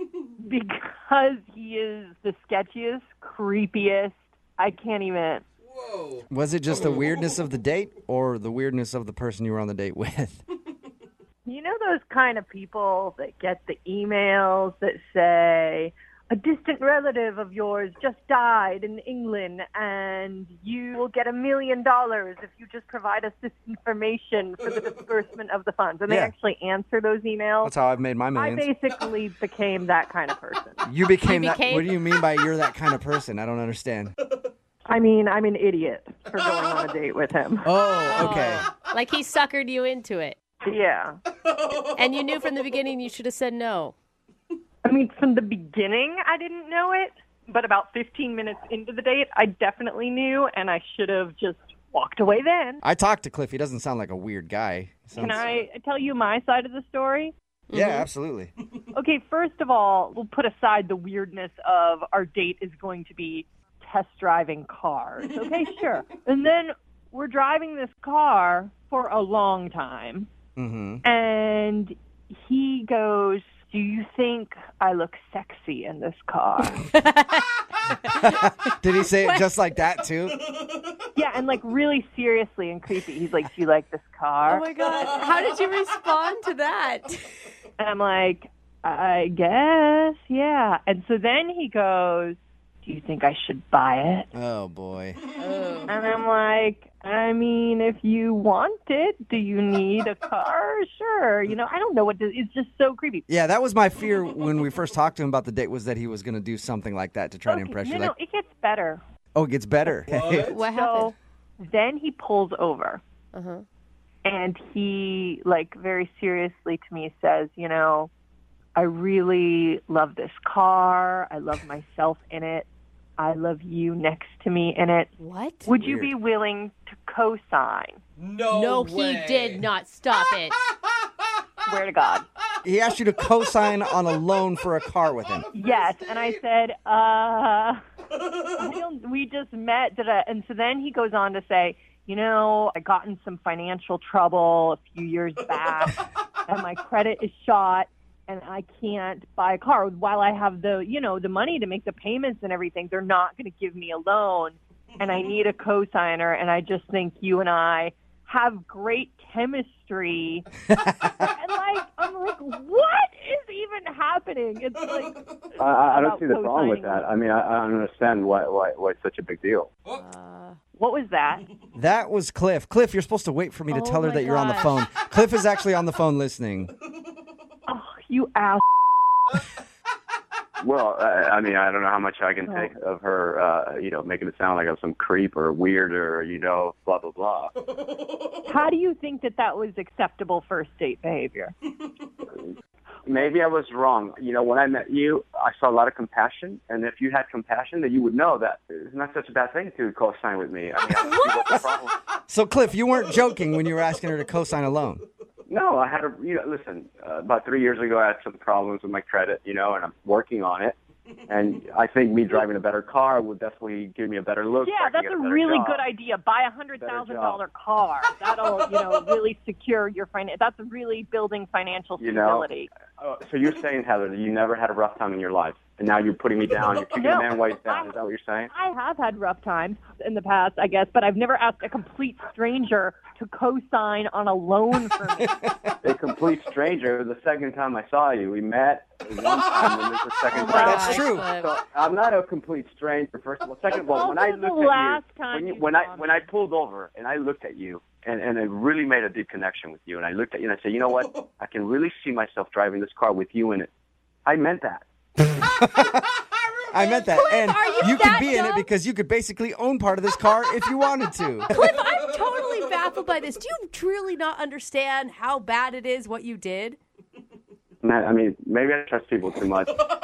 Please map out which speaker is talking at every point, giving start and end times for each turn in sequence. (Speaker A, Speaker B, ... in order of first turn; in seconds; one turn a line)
Speaker A: 0.4-5.4
Speaker B: 5.6-7.1
Speaker C: 6.3-10.4
Speaker A: 11.4-27.7
Speaker C: 26.1-26.3
Speaker C: 27.6-28.7
Speaker A: 28.3-30.8
Speaker C: 30.9-34.1
Speaker D: 31.2-31.9
Speaker A: 34.9-37.7
Speaker C: 37.6-38.6
Speaker D: 38.0-40.4
Speaker A: 40.6-41.1
Speaker D: 41.8-43.9
Speaker A: 44.8-52.8
Speaker C: 52.8-55.4
Speaker A: 55.1-57.3
Speaker D: 57.7-58.1
Speaker C: 57.7-58.5
Speaker A: 58.9-70.3
Speaker C: 70.6-71.0
Speaker A: 71.0-76.8
Speaker D: 76.9-78.4
Speaker C: 78.2-80.4
Speaker D: 79.1-79.5
Speaker B: 80.6-81.0
Speaker A: 81.1-84.6
Speaker D: 84.5-87.3
Speaker A: 87.8-94.3
Speaker C: 94.3-95.2
Speaker D: 95.4-95.9
Speaker A: 95.9-103.2
Speaker C: 103.3-108.1
Speaker A: 107.5-109.0
Speaker C: 109.3-110.5
Speaker B: 110.0-110.6
Speaker D: 110.5-111.1
Speaker A: 110.6-113.0
Speaker D: 113.3-113.6
Speaker A: 114.2-118.1
Speaker A: 118.7-122.7
Speaker A: 123.2-125.1
Speaker D: 125.2-125.7
Speaker A: 125.6-128.0
Speaker C: 125.8-126.1
Speaker B: 128.2-129.6
Speaker D: 128.5-130.6
Speaker A: 131.7-132.2
Speaker C: 132.6-135.4
Speaker A: 135.5-137.8
Speaker B: 135.8-136.2
Speaker A: 138.5-160.4
Speaker A: 161.2-167.1
Speaker B: 165.0-165.4
Speaker E: 165.6-169.7
Speaker D: 169.9-170.6
Speaker A: 170.8-171.4
Speaker C: 171.7-176.7
Speaker D: 173.7-174.8
Speaker A: 177.7-178.6
Speaker E: 180.6-187.5
Speaker B: 187.8-188.4
Speaker A: 188.4-191.5
Speaker E: 193.1-201.9
Speaker C: 202.3-205.0
Speaker E: 205.5-210.8
Speaker E: 211.3-215.8
Speaker A: 214.6-222.7
Speaker E: 216.8-217.4
Speaker E: 222.0-222.5
Speaker E: 223.0-228.5
Speaker A: 226.9-227.9
Speaker A: 228.5-235.4
Speaker E: 235.8-253.7
Speaker D: 240.3-241.5
Speaker C: 240.5-241.2
Speaker A: 243.7-246.3
Speaker E: 254.2-254.8
Speaker C: 255.4-256.0
Speaker C: 256.7-261.5
Speaker D: 256.7-258.7
Speaker D: 261.5-266.8
Speaker E: 267.8-269.8